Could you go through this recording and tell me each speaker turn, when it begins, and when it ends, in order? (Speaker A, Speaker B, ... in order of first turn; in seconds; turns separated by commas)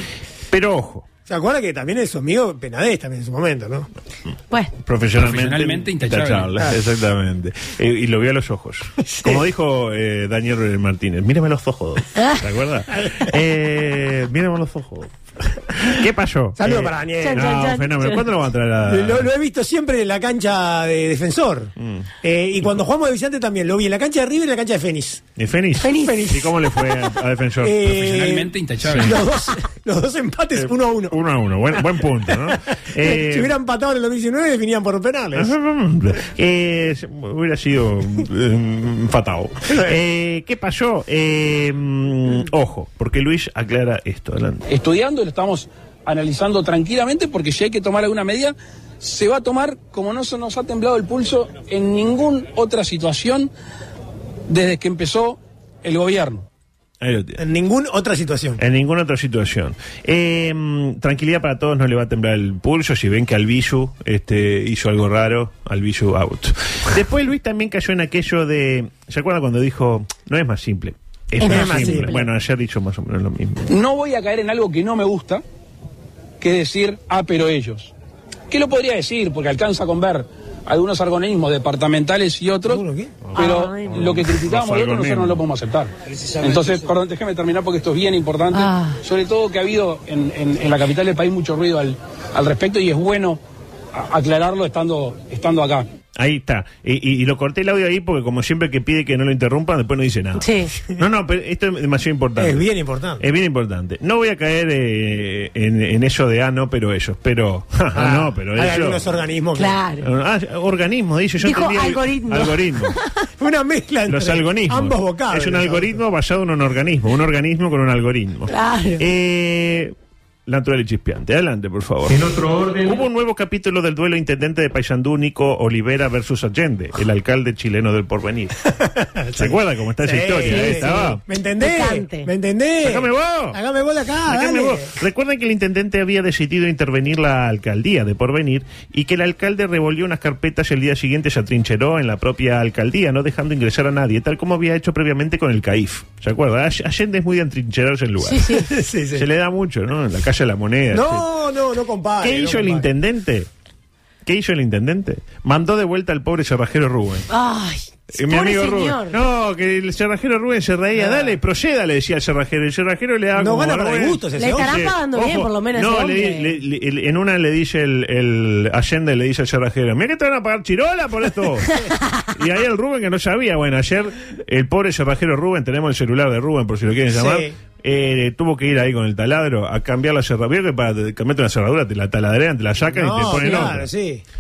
Speaker A: 0.5-1.1, Speaker B: 1.3-3.9, Speaker A: 4.8-15.1, Speaker C: 5.2-6.5, Speaker B: 9.0-9.5, Speaker A: 15.7-19.3, Speaker B: 16.6-17.6, Speaker D: 17.2-18.2, Speaker B: 18.9-25.2, Speaker A: 21.8-22.1, Speaker A: 25.4-28.3, Speaker D: 25.8-26.3, Speaker B: 26.0-26.5, Speaker B: 27.6-31.2, Speaker C: 28.0-29.2, Speaker A: 30.6-33.5, Speaker B: 31.7-35.5, Speaker A: 35.4-44.6, Speaker B: 39.6-40.0, Speaker C: 44.7-53.5, Speaker C: 54.5-56.5, Speaker A: 57.0-57.4, Speaker B: 57.4-58.6, Speaker A: 58.6-73.7, Speaker B: 71.4-72.2, Speaker D: 71.8-72.2, Speaker C: 73.7-75.4, Speaker C: 76.4-77.9, Speaker C: 78.5-82.8, Speaker B: 82.6-83.2, Speaker A: 83.2-85.4, Speaker C: 83.3-93.4, Speaker D: 83.4-84.1, Speaker D: 88.5-89.0, Speaker C: 93.9-95.9, Speaker A: 96.2-102.7, Speaker D: 100.4-100.7, Speaker B: 102.4-103.2, Speaker A: 103.2-109.0, Speaker B: 107.9-109.8, Speaker D: 109.6-110.1, Speaker A: 110.0-113.0, Speaker D: 111.4-113.0, Speaker B: 113.4-116.0, Speaker A: 114.1-119.9, Speaker D: 118.5-119.0, Speaker A: 120.5-128.6, Speaker B: 128.7-134.9, Speaker A: 129.4-131.2, Speaker D: 130.4-132.3, Speaker A: 132.8-133.6, Speaker A: 134.2-148.6, Speaker D: 148.2-148.6, Speaker B: 148.6-149.3, Speaker A: 149.1-151.3, Speaker B: 150.9-152.9, Speaker A: 152.2-153.5, Speaker A: 154.2-157.3, Speaker D: 157.3-159.2, Speaker A: 158.1-183.9, Speaker B: 161.0-161.4, Speaker B: 163.4-164.8, Speaker D: 164.4-166.5, Speaker B: 177.1-177.5, Speaker B: 182.9-184.2